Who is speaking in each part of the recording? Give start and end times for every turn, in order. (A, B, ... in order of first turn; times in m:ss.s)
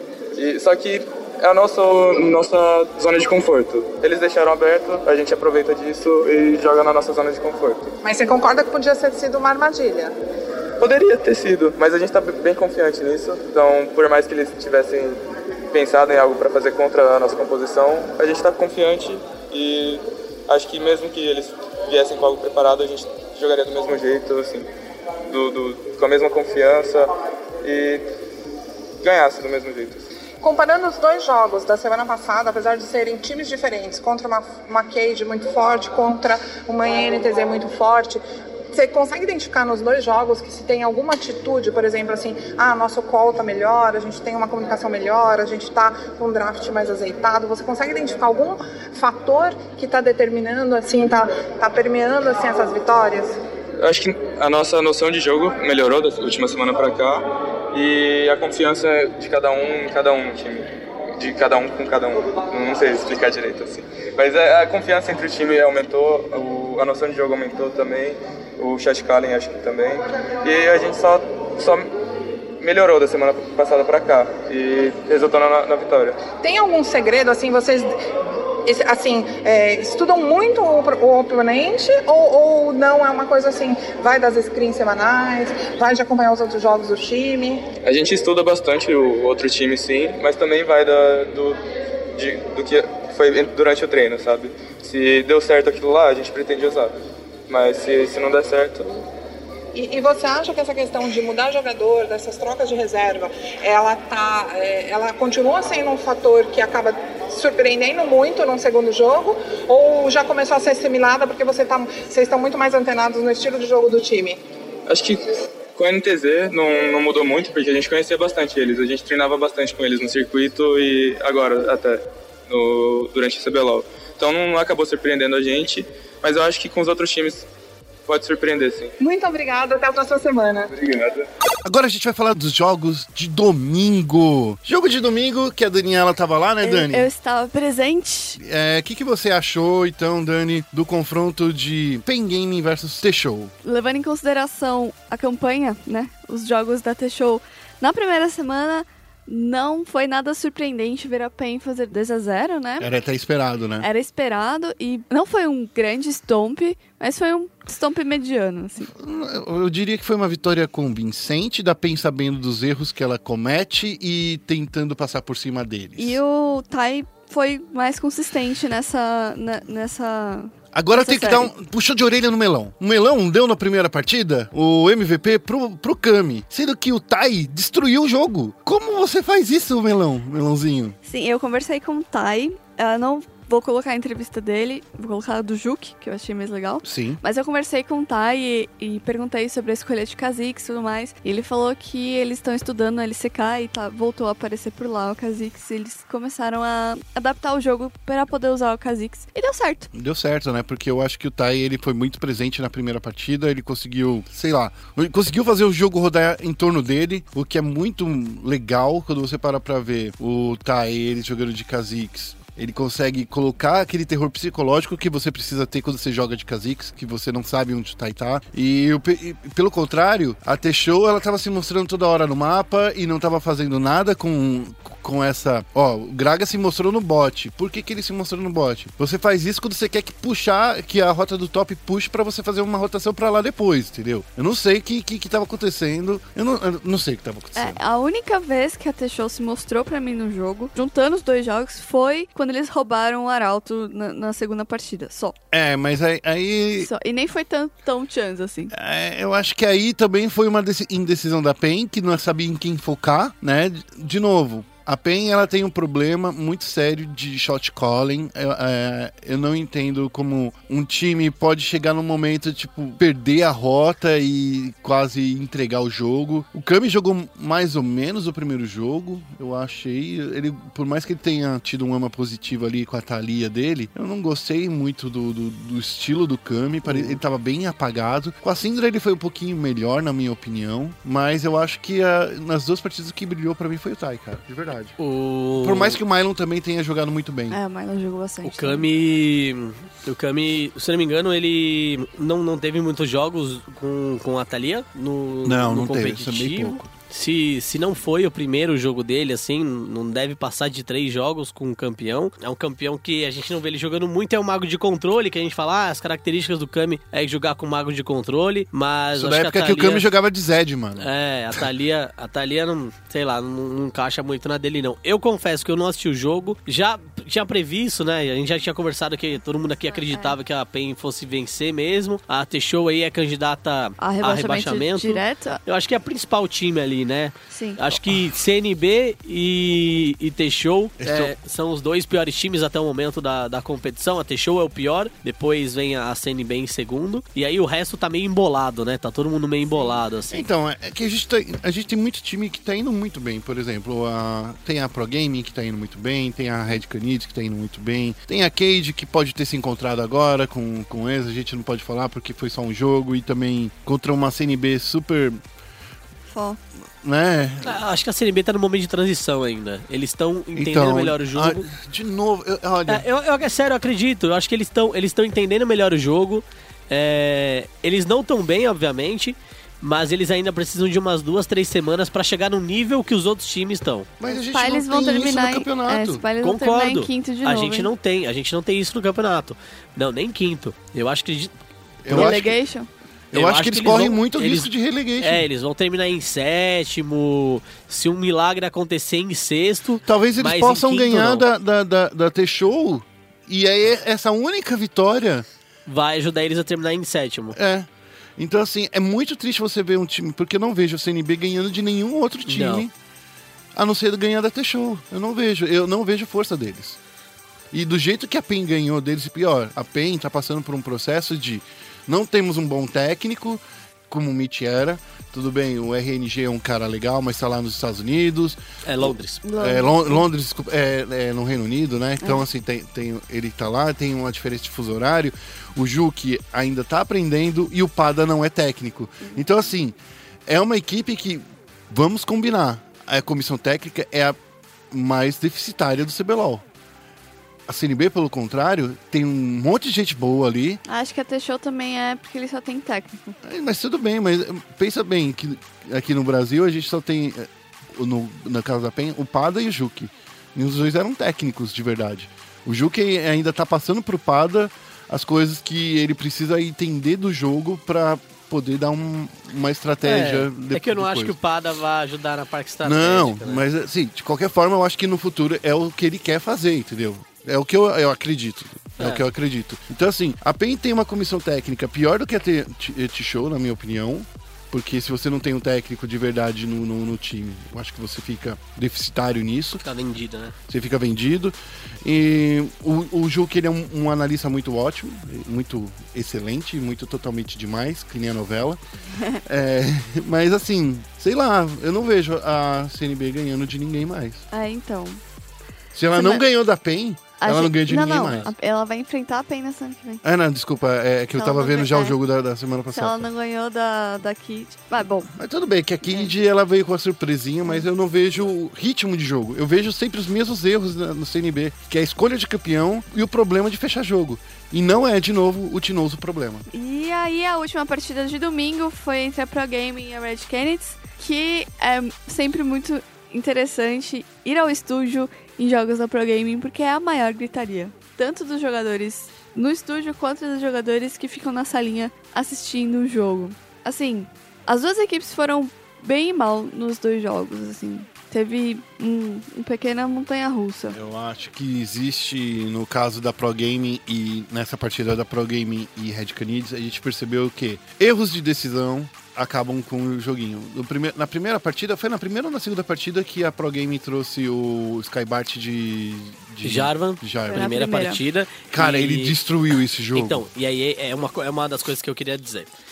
0:00.3-0:07.9 A
0:08.0-0:10.2 B
0:10.8-0:24.7 A
0:25.3-0:27.1 A
0:27.6-0:28.1 A
0:29.0-0:30.0 A
0:30.4-0:38.2 B
0:38.7-0:53.4 B
0:53.8-1:11.9 A
1:12.6-1:16.2 A
1:16.4-1:18.0 B
1:18.6-1:27.7 B
1:27.8-1:31.6 A
1:32.2-1:36.9 A
1:37.5-1:39.0 A
1:39.7-1:54.4 B
1:54.9-2:07.5 A
2:08.1-2:08.9 A
2:09.0-2:10.8 B
2:10.8-2:11.2 A
2:11.6-2:17.1 C
2:16.6-2:18.4 D
2:18.4-2:23.5 C
2:23.6-2:32.9 D
2:32.8-2:33.9 C
2:33.8-2:38.9 D
2:38.9-2:46.2 C
2:46.0-2:51.5 D
2:50.7-3:01.0 C
3:01.0-3:19.9 D
3:06.8-3:07.2 C
3:19.9-3:57.8 C
3:57.6-4:05.4 D
4:05.5-4:06.9 C
4:06.8-4:08.7 D
4:08.7-4:45.0 C
4:36.9-4:37.2 E
4:45.0-4:46.0 E
4:45.6-4:47.6 C
4:47.5-4:48.9 D
4:48.4-5:10.1 E
4:55.4-4:56.9 C
5:09.1-5:11.7 C
5:11.0-5:40.5 E
5:19.9-5:20.4 D
5:24.0-5:25.6 D
5:27.5-5:27.8 D
5:31.0-5:31.3 C
5:40.3-5:55.4 C
5:56.3-5:56.6 D
5:57.0-5:57.8 C
5:57.6-6:01.7 E
6:00.6-6:03.0 C
6:02.9-6:14.1 E
6:14.2-6:16.2 C
6:14.3-6:17.9 D
6:16.4-6:21.5 E
6:22.0-6:22.6 C
6:22.1-6:22.4 E
6:22.1-6:22.9 D
6:23.3-6:25.4 C
6:23.3-6:24.7 E
6:25.2-6:31.4 E
6:30.1-6:35.5 C
6:35.9-6:37.6 E
6:37.5-6:42.9 C
6:42.5-6:42.9 E
6:43.8-6:47.0 C
6:47.7-6:58.6 C
6:58.8-6:59.4 E
6:59.4-7:00.2 D
6:59.6-7:10.0 C
7:10.5-7:14.4 C
7:14.9-7:16.6 C
7:17.7-7:20.8 C
7:20.9-7:23.4 D
7:23.4-7:41.4 C
7:40.0-7:43.6 E
7:42.8-7:59.8 C
7:59.8-8:00.6 E
8:00.7-8:08.8 C
8:09.4-8:14.4 C
8:14.5-8:15.2 D
8:15.9-8:18.5 C
8:16.2-8:16.4 D
8:17.4-8:20.2 D
8:18.2-8:18.5 E
8:20.2-8:23.2 C
8:21.4-8:22.2 D
8:22.9-8:25.3 D
8:25.4-8:36.6 C
8:36.7-9:01.0 D
9:00.9-9:17.7 C
9:16.6-9:19.4 E
9:17.5-9:18.2 D
9:18.7-9:20.4 C
9:20.2-9:22.7 E